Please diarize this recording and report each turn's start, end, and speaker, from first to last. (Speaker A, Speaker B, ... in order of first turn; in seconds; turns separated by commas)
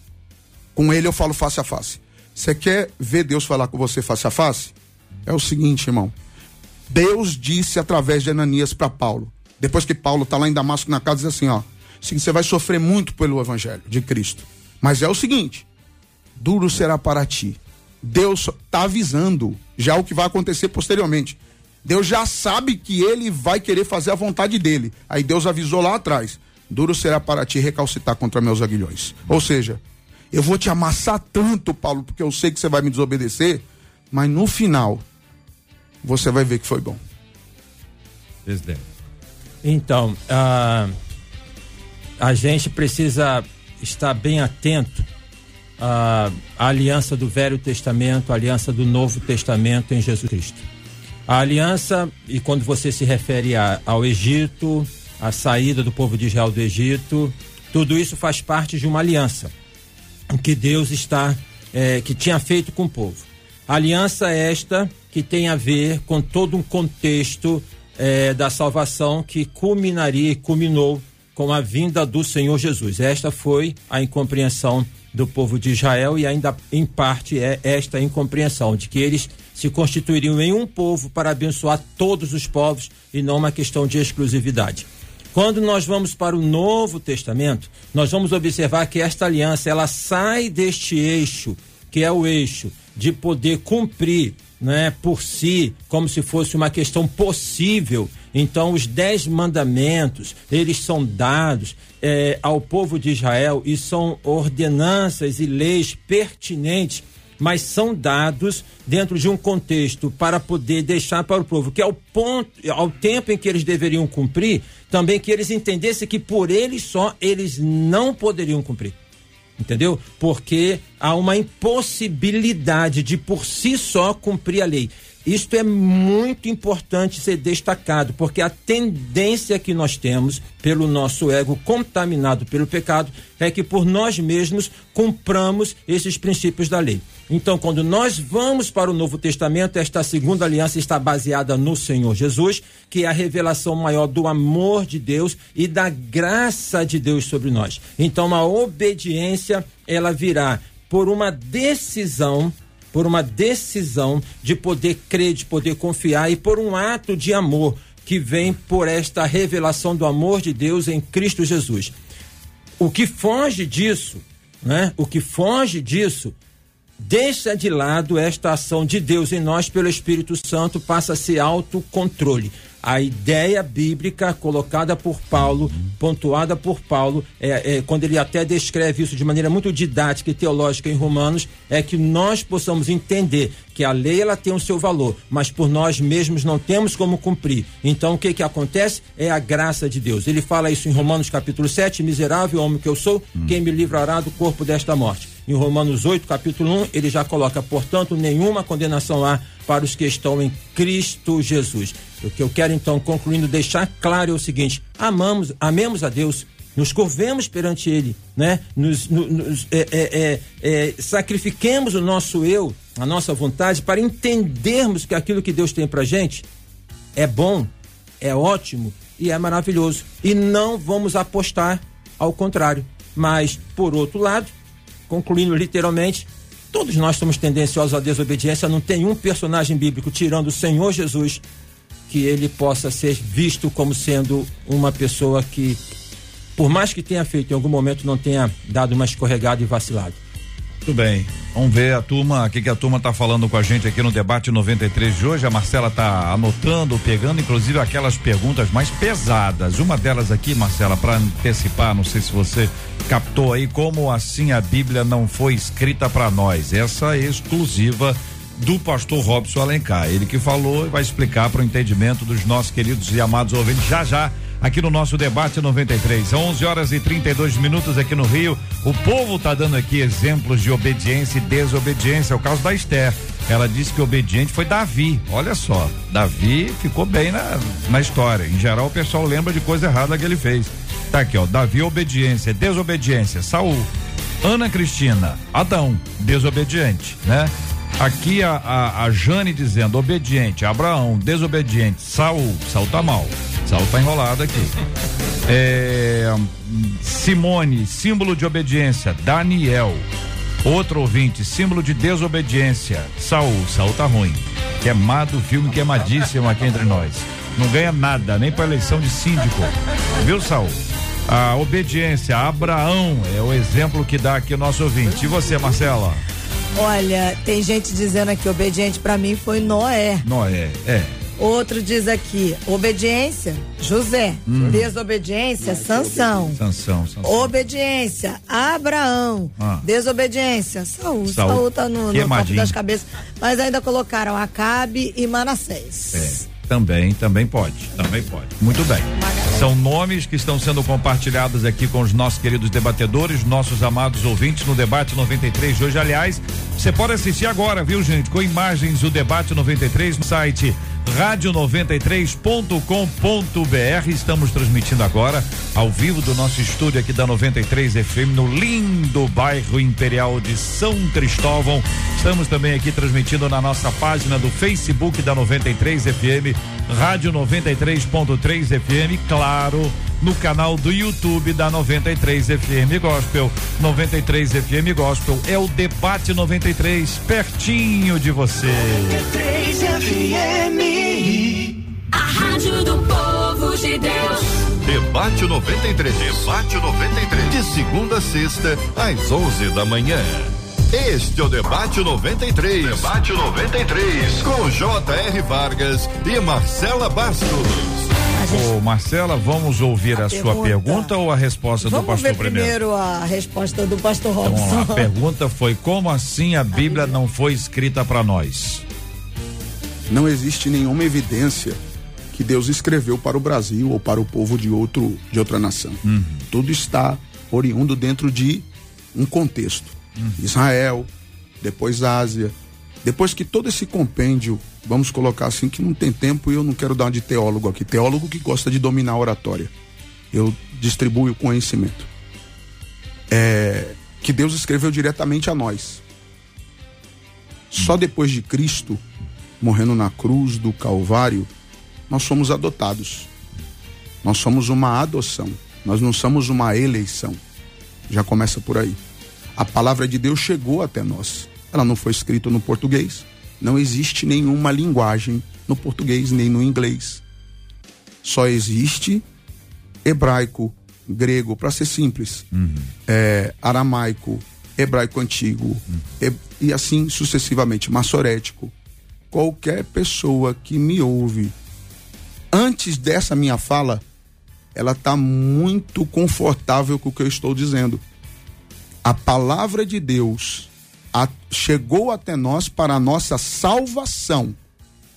Speaker A: 0.7-6.1, Speaker A: 6.9-15.7, Speaker A: 16.4-29.8, Speaker A: 30.3-35.0, Speaker A: 36.0-37.0, Speaker B: 38.4-38.8, Speaker C: 39.6-40.9, Speaker C: 42.2-45.1, Speaker C: 45.8-50.6, Speaker C: 51.3-59.5, Speaker C: 60.3-119.0, Speaker C: 119.6-161.9, Speaker C: 162.8-166.3, Speaker C: 167.0-216.4, Speaker C: 217.1-224.5, Speaker C: 225.1-231.4, Speaker C: 232.1-235.8, Speaker C: 236.6-240.2, Speaker B: 240.8-283.9, Speaker B: 284.4-294.8, Speaker B: 295.4-300.0, Speaker B: 300.6-316.2, Speaker D: 316.8-320.2, Speaker B: 320.2-321.1, Speaker D: 321.4-326.6, Speaker B: 324.5-324.9, Speaker A: 325.6-326.5, Speaker B: 326.5-327.6, Speaker D: 327.2-336.4, Speaker B: 329.6-329.9, Speaker B: 331.3-332.8, Speaker B: 336.1-379.3, Speaker D: 338.7-339.7, Speaker E: 379.4-384.7, Speaker F: 384.8-398.1, Speaker D: 398.3-398.7, Speaker B: 398.5-402.8, Speaker D: 400.1-401.1, Speaker D: 401.8-405.1, Speaker B: 404.4-408.8, Speaker D: 406.7-407.1, Speaker A: 410.1-411.8, Speaker A: 412.3-421.1, Speaker B: 416.1-416.4, Speaker B: 420.2-420.4, Speaker A: 421.6-429.7, Speaker A: 430.3-432.1, Speaker A: 433.3-436.0, Speaker A: 437.7-439.0, Speaker A: 439.6-441.5, Speaker A: 442.1-443.3, Speaker A: 444.2-447.4, Speaker A: 448.1-449.0, Speaker A: 449.6-457.2, Speaker A: 458.2-459.2, Speaker A: 460.0-462.4, Speaker B: 462.5-462.9, Speaker A: 463.1-468.7, Speaker A: 469.3-471.6, Speaker A: 472.5-474.0, Speaker A: 474.7-478.0, Speaker A: 479.0-484.6